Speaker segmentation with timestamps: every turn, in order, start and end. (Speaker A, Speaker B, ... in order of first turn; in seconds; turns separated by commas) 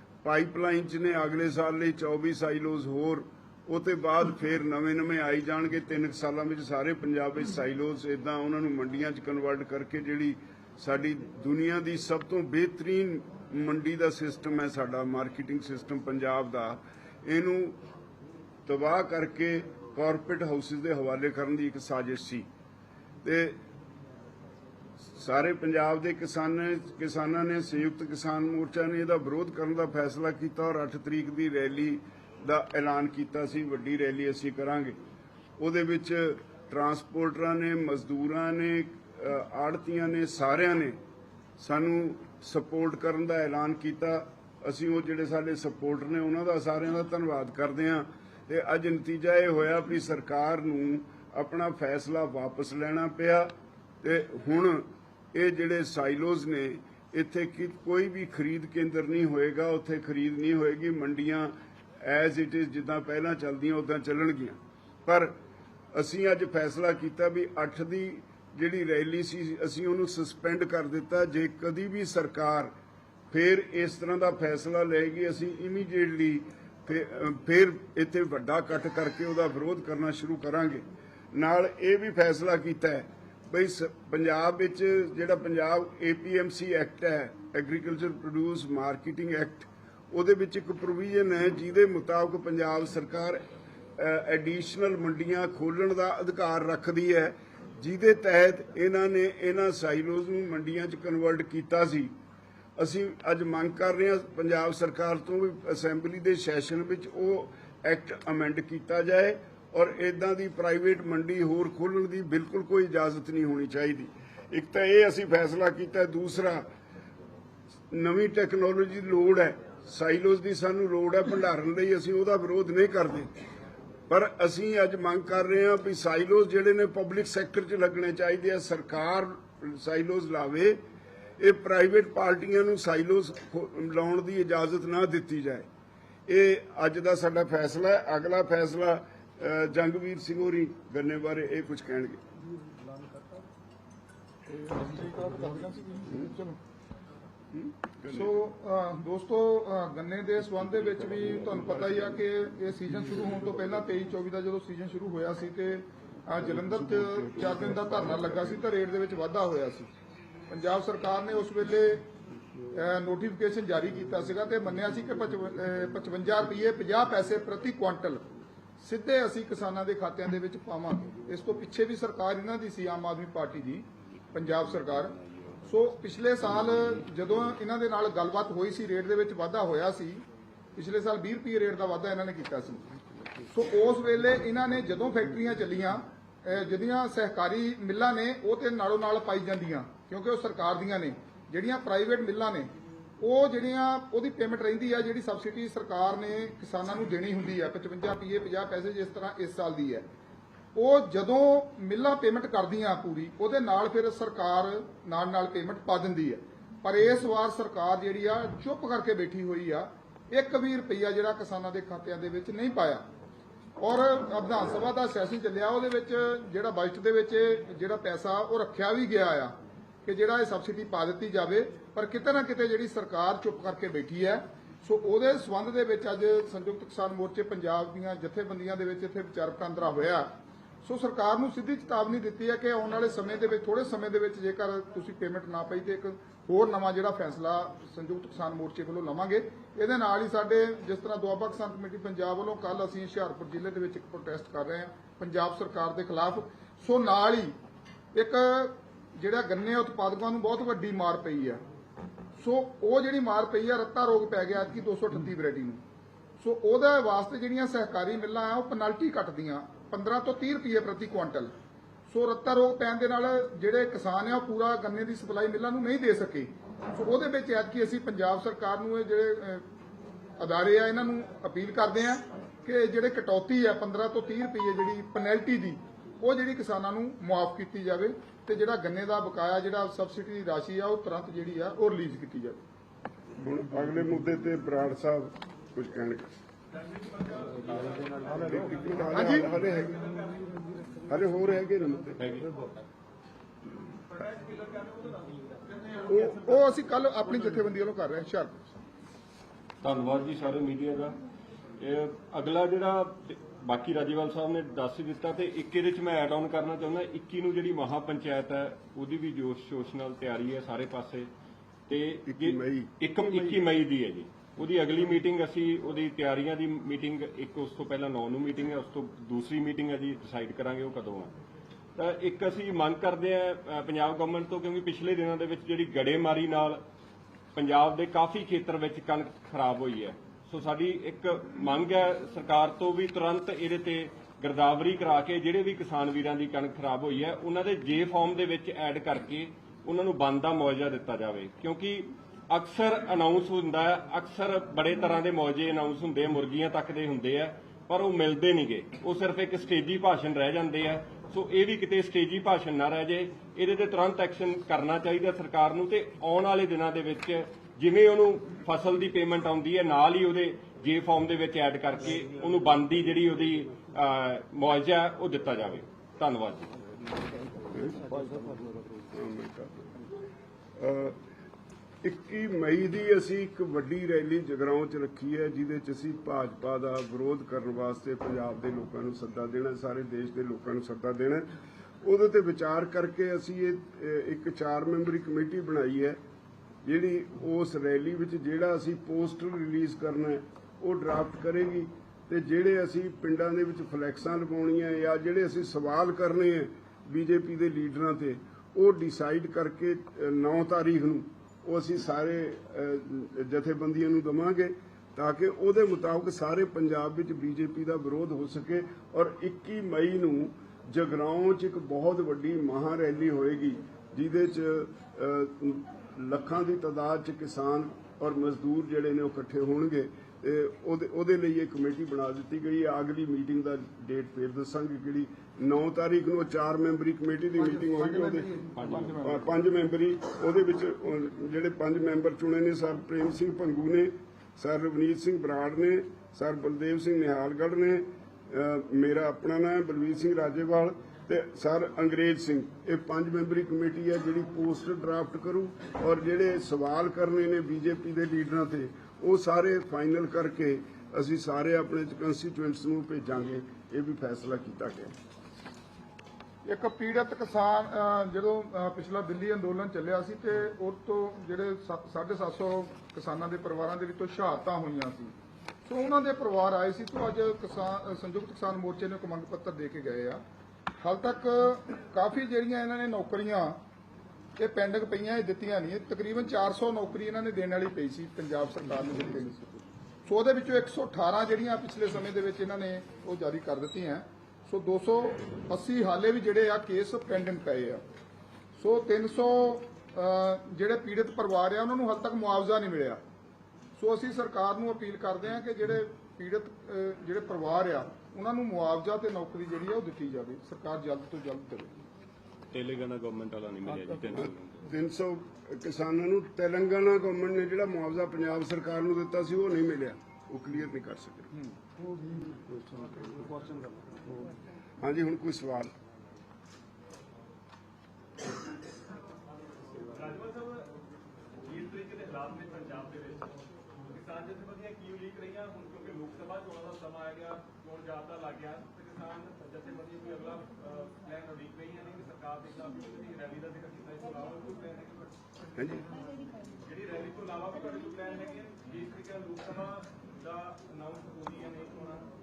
Speaker A: 0.2-17.8, Speaker A: 18.7-22.5, Speaker A: 23.2-23.6, Speaker A: 25.0-35.0, Speaker A: 35.6-41.0, Speaker A: 41.6-65.4, Speaker A: 65.9-72.7, Speaker A: 73.3-93.4, Speaker A: 94.0-102.1, Speaker A: 102.8-116.7, Speaker A: 117.9-123.3, Speaker A: 124.1-130.8, Speaker A: 131.4-135.7, Speaker A: 136.3-142.2, Speaker B: 144.5-146.6, Speaker A: 147.5-148.3, Speaker B: 148.1-159.9, Speaker A: 157.0-157.9, Speaker B: 160.5-162.1, Speaker B: 162.7-168.3, Speaker B: 168.8-180.2, Speaker B: 180.8-182.8, Speaker B: 183.5-200.1, Speaker B: 200.8-213.1, Speaker B: 213.8-219.5, Speaker B: 220.1-230.3, Speaker B: 230.8-247.5, Speaker B: 248.2-251.6, Speaker B: 252.4-255.8, Speaker B: 256.4-261.5, Speaker B: 262.1-269.6, Speaker B: 270.4-282.6, Speaker A: 283.4-286.3, Speaker C: 286.7-290.7, Speaker A: 288.4-290.0, Speaker B: 289.1-289.5, Speaker A: 291.1-292.2, Speaker D: 292.2-292.6, Speaker C: 294.1-296.5, Speaker B: 296.1-298.5, Speaker D: 299.8-301.2, Speaker D: 301.8-311.3, Speaker D: 311.9-321.3, Speaker A: 312.3-313.6, Speaker D: 322.0-326.8, Speaker D: 327.6-366.7, Speaker A: 369.1-370.0, Speaker A: 370.8-371.2, Speaker A: 372.0-381.5, Speaker A: 382.0-386.2, Speaker A: 386.9-428.6, Speaker B: 428.2-429.3, Speaker D: 428.8-429.2, Speaker A: 429.1-455.1, Speaker B: 456.7-465.3, Speaker B: 465.9-470.4, Speaker B: 471.0-473.8, Speaker B: 474.6-488.0, Speaker B: 488.8-493.2, Speaker B: 494.0-501.9, Speaker D: 502.7-504.8, Speaker A: 504.4-511.5, Speaker A: 515.0-515.9, Speaker C: 520.1-520.9, Speaker C: 521.6-535.4, Speaker A: 535.8-536.1, Speaker C: 536.8-542.3